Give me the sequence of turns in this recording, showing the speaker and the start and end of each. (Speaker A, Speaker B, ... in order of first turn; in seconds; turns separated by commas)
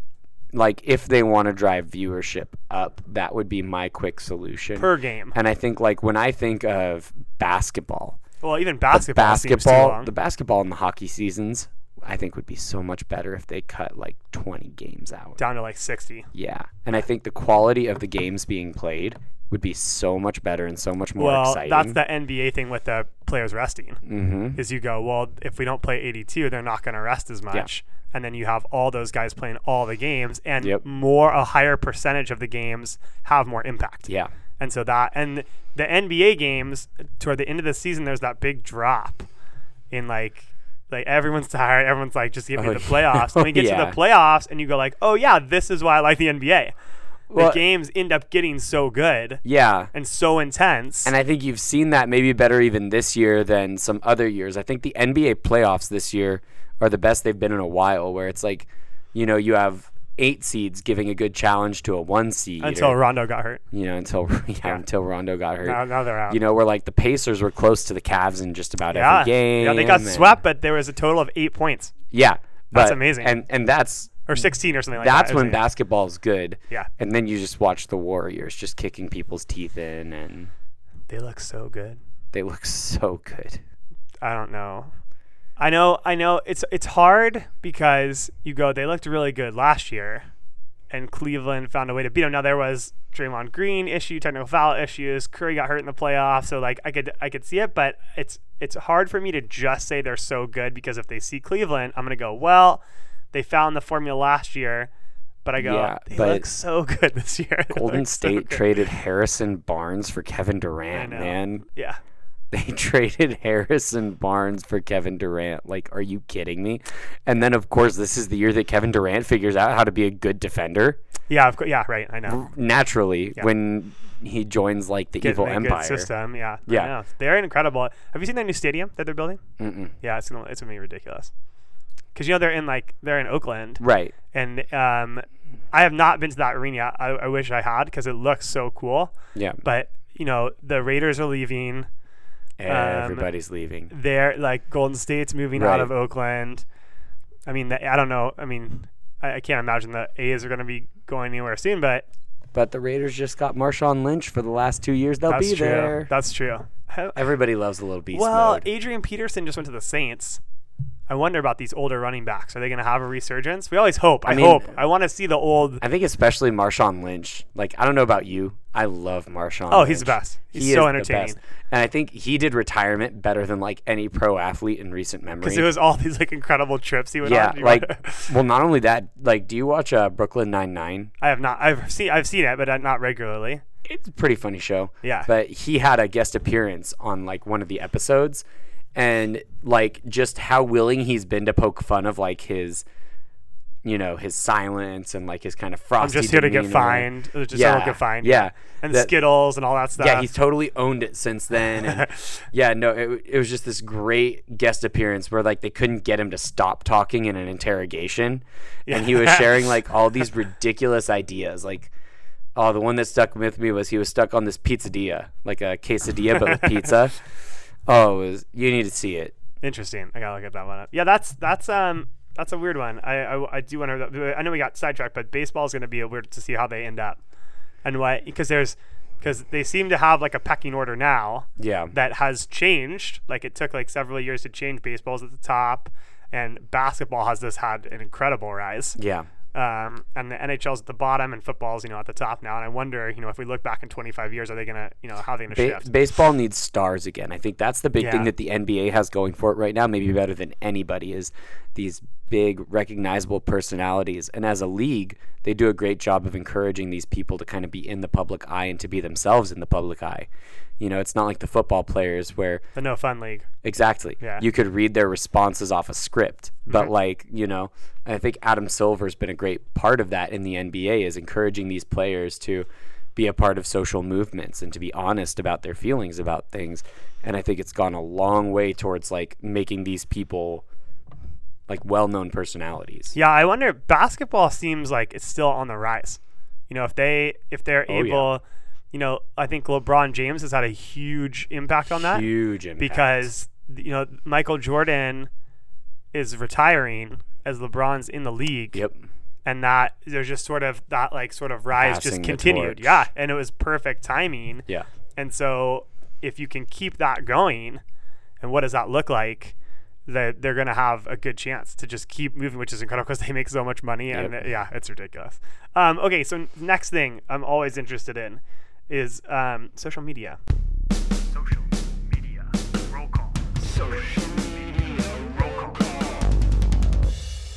Speaker A: 0.5-8.2, Speaker B: 4.8-5.3, Speaker B: 8.4-10.1, Speaker A: 8.9-15.4, Speaker B: 15.4-16.3, Speaker A: 16.3-22.0, Speaker B: 21.2-24.0, Speaker A: 24.0-24.6, Speaker B: 24.6-39.3, Speaker B: 39.9-46.7, Speaker A: 42.5-44.0, Speaker A: 47.3-47.6, Speaker B: 47.3-49.4, Speaker A: 49.4-49.9, Speaker B: 49.9-51.1, Speaker A: 51.0-63.0, Speaker B: 62.6-63.6, Speaker A: 63.7-70.4, Speaker B: 65.6-66.4, Speaker B: 68.9-71.9, Speaker A: 72.1-74.3, Speaker B: 72.7-73.3, Speaker B: 74.3-75.6, Speaker A: 75.0-80.5, Speaker B: 81.1-82.0, Speaker A: 82.3-83.6, Speaker B: 84.2-84.9, Speaker B: 85.6-90.3, Speaker B: 90.9-104.9, Speaker B: 105.4-108.6, Speaker A: 105.6-106.5, Speaker A: 107.7-111.6, Speaker B: 110.9-112.0, Speaker A: 112.5-121.0, Speaker B: 121.3-122.4, Speaker A: 122.2-126.1, Speaker B: 125.2-129.4, Speaker A: 126.7-126.9, Speaker A: 129.6-129.9, Speaker B: 130.0-131.3, Speaker B: 132.1-141.9, Speaker A: 133.8-134.1, Speaker A: 139.3-139.6, Speaker A: 142.6-143.9, Speaker B: 142.7-143.3, Speaker B: 143.9-146.6, Speaker A: 145.5-145.9, Speaker B: 147.4-152.1, Speaker A: 152.5-156.1, Speaker B: 155.3-157.3, Speaker A: 157.1-158.7, Speaker B: 158.1-160.4, Speaker B: 161.1-165.8, Speaker A: 164.2-164.7, Speaker A: 165.8-175.7, Speaker B: 169.7-171.4, Speaker B: 175.4-178.3, Speaker A: 177.2-181.1, Speaker B: 181.2-183.6, Speaker A: 183.8-192.8, Speaker B: 185.0-185.3, Speaker A: 193.8-199.1, Speaker B: 196.0-200.3, Speaker A: 200.0-211.9, Speaker B: 201.8-202.3, Speaker B: 208.9-209.6, Speaker A: 212.5-217.2, Speaker A: 217.8-219.3, Speaker B: 219.6-227.2, Speaker B: 227.8-239.0, Speaker A: 231.6-231.9, Speaker A: 239.0-239.3, Speaker B: 239.5-245.9, Speaker A: 245.5-260.3, Speaker B: 248.0-248.3, Speaker A: 260.8-262.6, Speaker B: 262.7-263.5, Speaker A: 263.6-280.6, Speaker B: 264.2-264.4, Speaker B: 266.7-266.9, Speaker A: 281.7-283.1, Speaker B: 283.1-292.2, Speaker A: 287.9-288.3, Speaker A: 292.0-293.3, Speaker B: 292.8-295.3, Speaker B: 296.1-298.8, Speaker A: 298.7-299.0, Speaker B: 299.4-307.8, Speaker A: 301.8-303.0, Speaker B: 308.4-309.5, Speaker B: 310.1-320.4, Speaker B: 321.3-326.1